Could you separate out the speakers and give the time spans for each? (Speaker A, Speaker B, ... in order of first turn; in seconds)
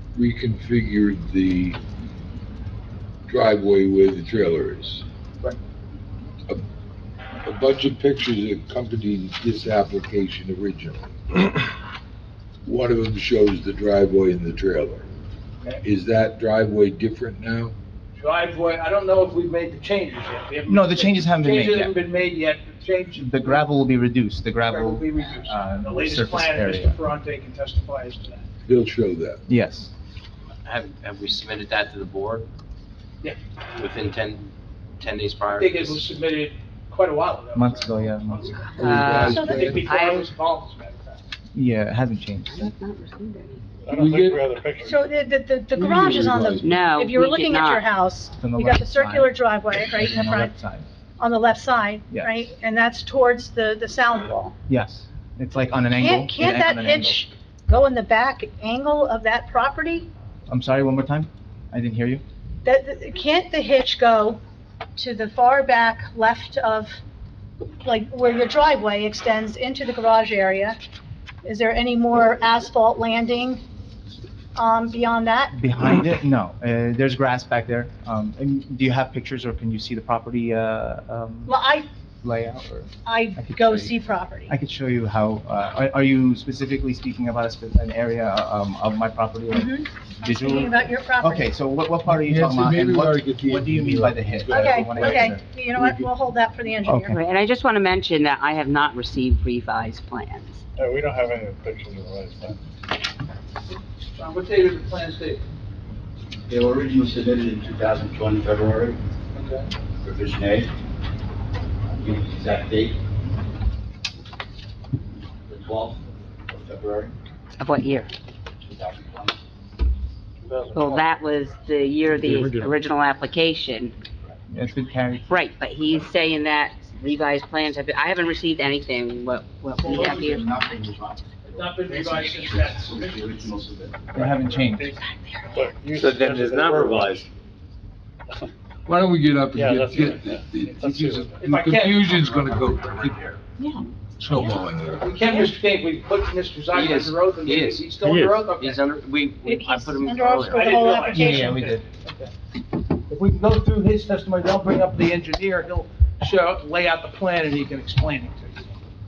Speaker A: 0.1-1.8, 3.3-5.0, 7.5-11.6, 12.7-15.1, 15.8-17.8, 28.7-29.4, 38.8-39.9, 43.9-44.4, 45.8-46.9, 92.1-96.0, 138.9-143.4, 144.2-145.1
Speaker B: 18.2-23.7, 24.7-28.5, 35.6-38.6, 39.5-41.2, 104.2-105.4, 109.3-109.7, 129.8-130.2, 131.5-133.6, 141.4-142.2, 145.0-148.9, 150.6-152.3, 153.1-158.7
Speaker C: 20.7-21.9, 23.2-27.0, 29.5-29.9, 37.5-39.4, 41.5-42.7, 48.4-50.9, 54.7-57.3, 60.5-62.2, 75.5-81.5, 82.2-83.9, 84.5-95.4, 96.9-97.1, 124.5-125.3, 134.1-134.9, 151.1-151.8
Speaker D: 30.6-32.5, 33.8-34.5, 35.0-36.1, 145.3-145.5, 146.7-151.5
Speaker E: 38.6-40.3, 42.5-43.6, 46.6-47.9, 97.1-100.6, 117.6-118.1, 120.7-124.0, 125.3-130.5, 135.0-135.5
Speaker F: 39.2-39.8, 44.8-50.6, 51.2-54.5, 56.0-60.1, 62.6-64.4, 65.0-67.0, 67.8-70.8, 71.5-73.6, 74.5-75.6, 81.5-81.9, 83.0-84.5, 89.5-91.5, 94.5-97.2, 149.4-151.7
Speaker G: 43.8-45.0, 100.8-102.6, 120.5-121.1, 122.3-122.7, 134.2-135.0, 135.5-137.3, 139.5-141.4
Speaker H: 106.5-109.0, 110.0-110.7, 112.0-113.0, 115.5-117.1, 118.7-119.3, 129.8-134.1